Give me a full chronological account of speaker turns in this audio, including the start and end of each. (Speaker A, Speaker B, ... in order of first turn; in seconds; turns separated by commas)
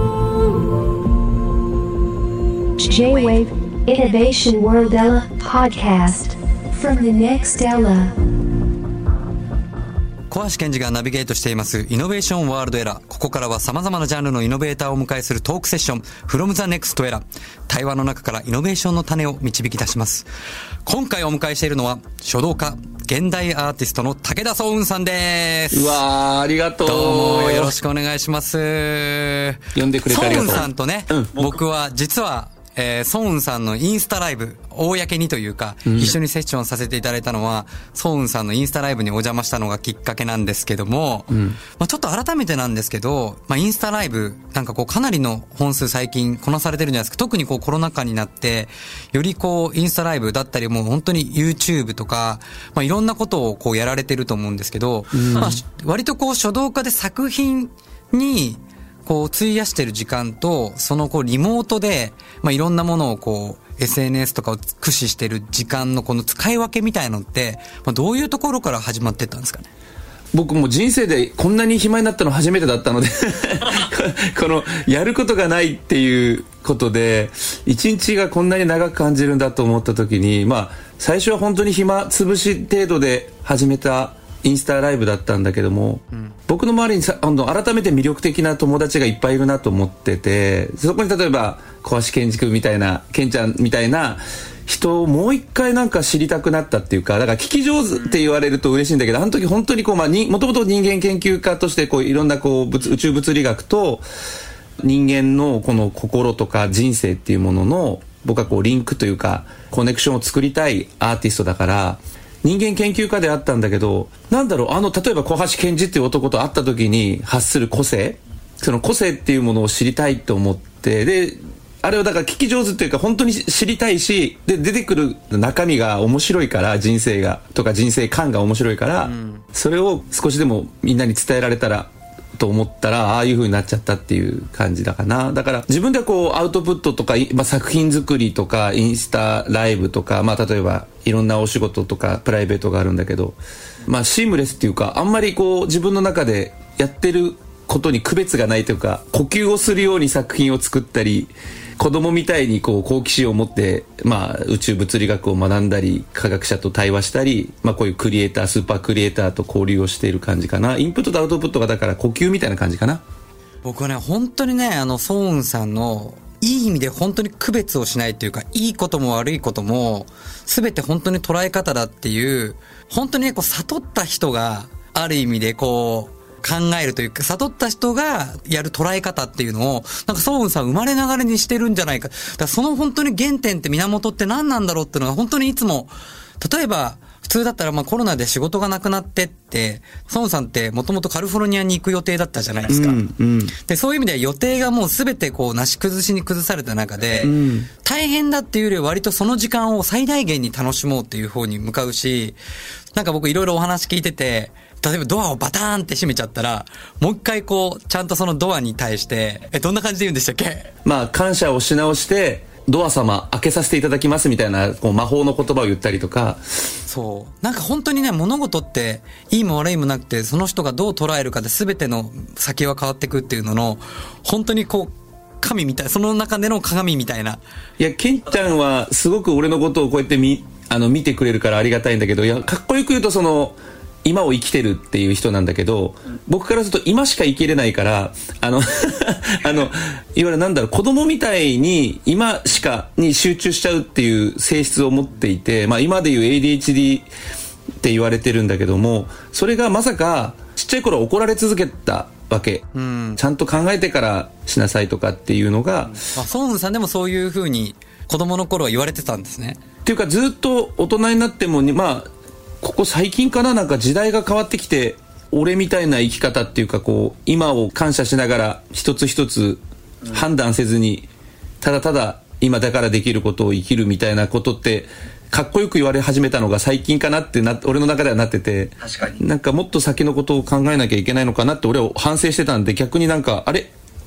Speaker A: 2.8-8.2, Speaker B: 10.3-20.2, Speaker B: 20.8-26.0, Speaker C: 25.7-27.7, Speaker B: 26.8-69.7, Speaker C: 29.7-31.6, Speaker C: 35.9-36.2, Speaker C: 41.3-41.6, Speaker C: 55.1-55.6, Speaker C: 70.3-104.0, Speaker C: 104.8-163.0, Speaker B: 129.0-129.4, Speaker B: 163.6-193.0, Speaker C: 192.7-193.5, Speaker B: 193.6-202.4, Speaker C: 197.2-197.7, Speaker B: 202.9-210.7, Speaker C: 210.8-216.4, Speaker B: 216.9-227.4, Speaker C: 227.8-247.1, Speaker C: 247.8-252.7, Speaker B: 252.7-253.2, Speaker C: 253.2-256.0, Speaker B: 256.1-259.6, Speaker C: 259.8-271.1, Speaker C: 271.6-283.7